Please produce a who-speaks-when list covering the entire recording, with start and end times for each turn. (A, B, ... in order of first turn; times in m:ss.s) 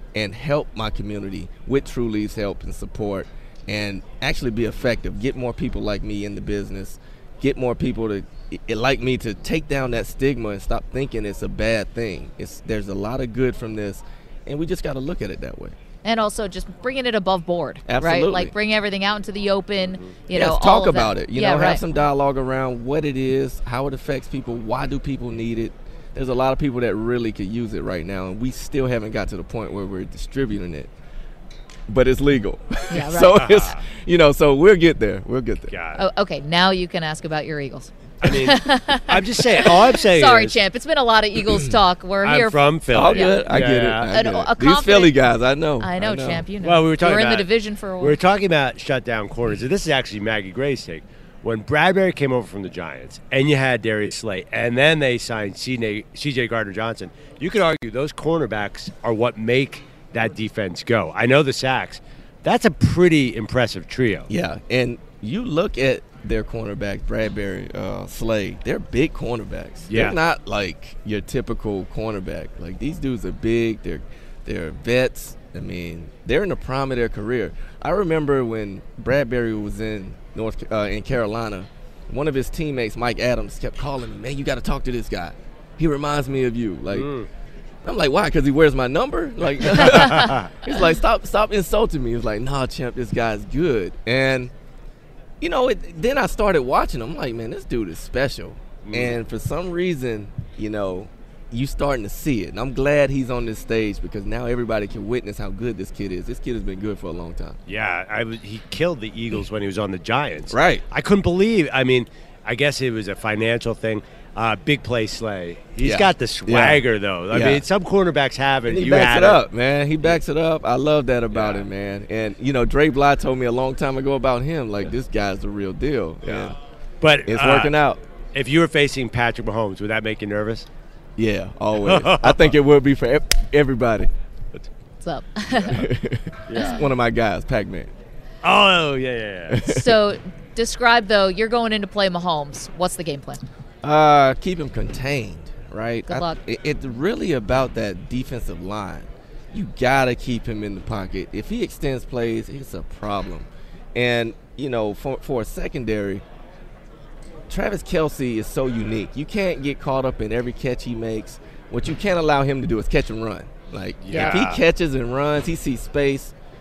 0:00.2-0:15.8 A
0:16.0-0:21.8 B
0:17.9-0:18.5 A
0:20.3-0:30.9 A
0:31.9-0:35.7 A
0:32.9-0:33.3 B
0:33.4-0:33.8 C
0:35.7-0:36.0 C
0:36.0-0:43.5 B
0:38.2-0:40.6 C
0:42.2-0:44.1 C
0:42.9-0:46.5 A
0:44.1-0:45.2 B
0:45.8-0:48.2 B
0:46.6-1:04.3 C
1:04.3-1:27.1 A
1:09.9-1:10.2 C
1:26.9-1:27.3 C
1:27.8-1:34.5 A
1:35.4-1:47.6 A
1:38.8-1:39.2 C
1:47.7-1:59.4 C
1:50.5-1:50.8 A
1:55.8-1:57.6 A
1:58.7-2:06.6 A
2:01.3-2:01.7 C
2:06.2-2:07.8 C
2:07.3-2:08.0 A
2:08.3-2:10.7 C
2:11.2-2:14.1 A
2:11.8-2:12.5 C
2:15.0-2:15.9 B
2:15.5-2:17.9 A
2:16.5-2:16.8 C
2:16.6-2:16.8 B
2:18.4-2:19.6 C
2:19.5-2:20.0 A
2:19.6-2:23.4 B
2:23.8-2:36.2 A
2:26.1-2:26.4 B
2:37.5-2:46.4 A
2:44.0-2:44.6 C